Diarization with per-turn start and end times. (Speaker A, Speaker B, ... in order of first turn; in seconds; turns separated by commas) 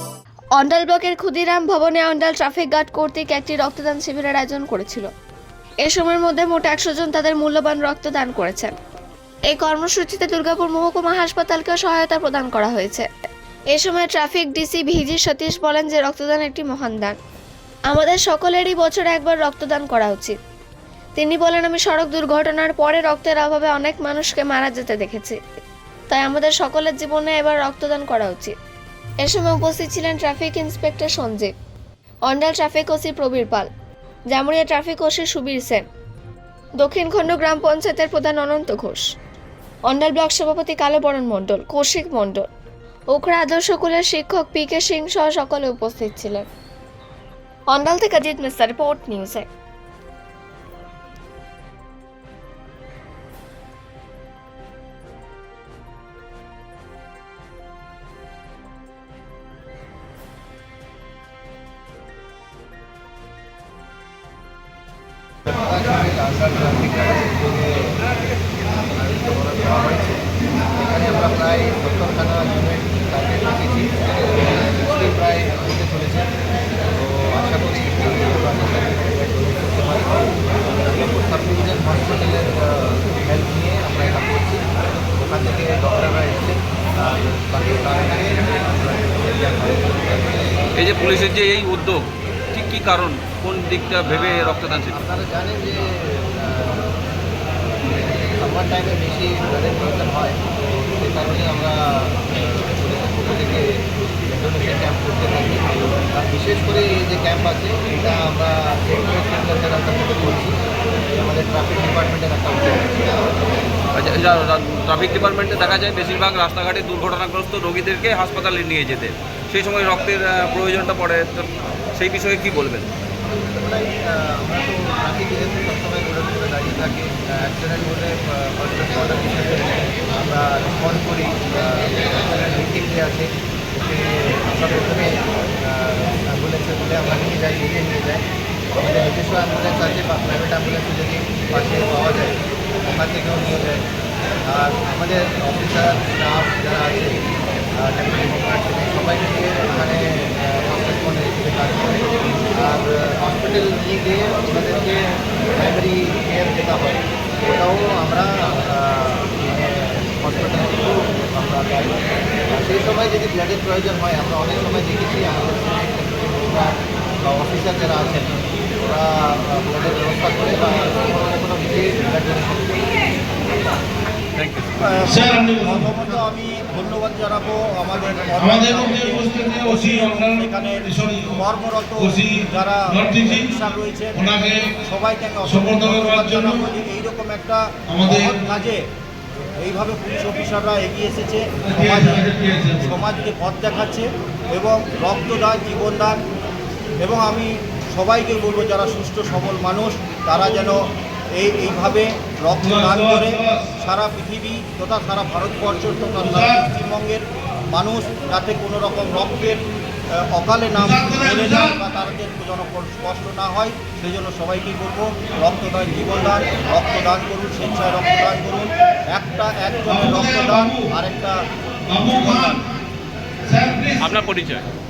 Speaker A: 0.5-5.1, Speaker A: 5.8-8.7, Speaker A: 9.5-13.1, Speaker A: 13.7-17.2, Speaker A: 17.9-20.4, Speaker A: 21.2-25.4, Speaker A: 26.1-28.5, Speaker A: 29.2-31.5, Speaker A: 32.3-33.7, Speaker A: 34.3-35.8, Speaker A: 36.8-39.0, Speaker A: 39.9-42.5, Speaker A: 43.1-46.5, Speaker A: 47.7-49.5, Speaker B: 65.5-68.0, Speaker B: 69.0-70.2, Speaker B: 70.9-76.3, Speaker B: 76.9-90.6, Speaker C: 90.8-95.0, Speaker B: 94.8-96.9, Speaker B: 97.8-103.7, Speaker B: 104.3-113.2, Speaker C: 113.9-122.9, Speaker B: 123.5-138.2, Speaker B: 138.8-143.8, Speaker B: 144.4-147.2, Speaker B: 147.8-155.0, Speaker B: 155.5-172.9, Speaker C: 174.3-174.7, Speaker D: 174.8-188.8, Speaker D: 189.6-196.2, Speaker D: 197.0-221.4, Speaker D: 221.9-222.7, Speaker C: 224.0-224.6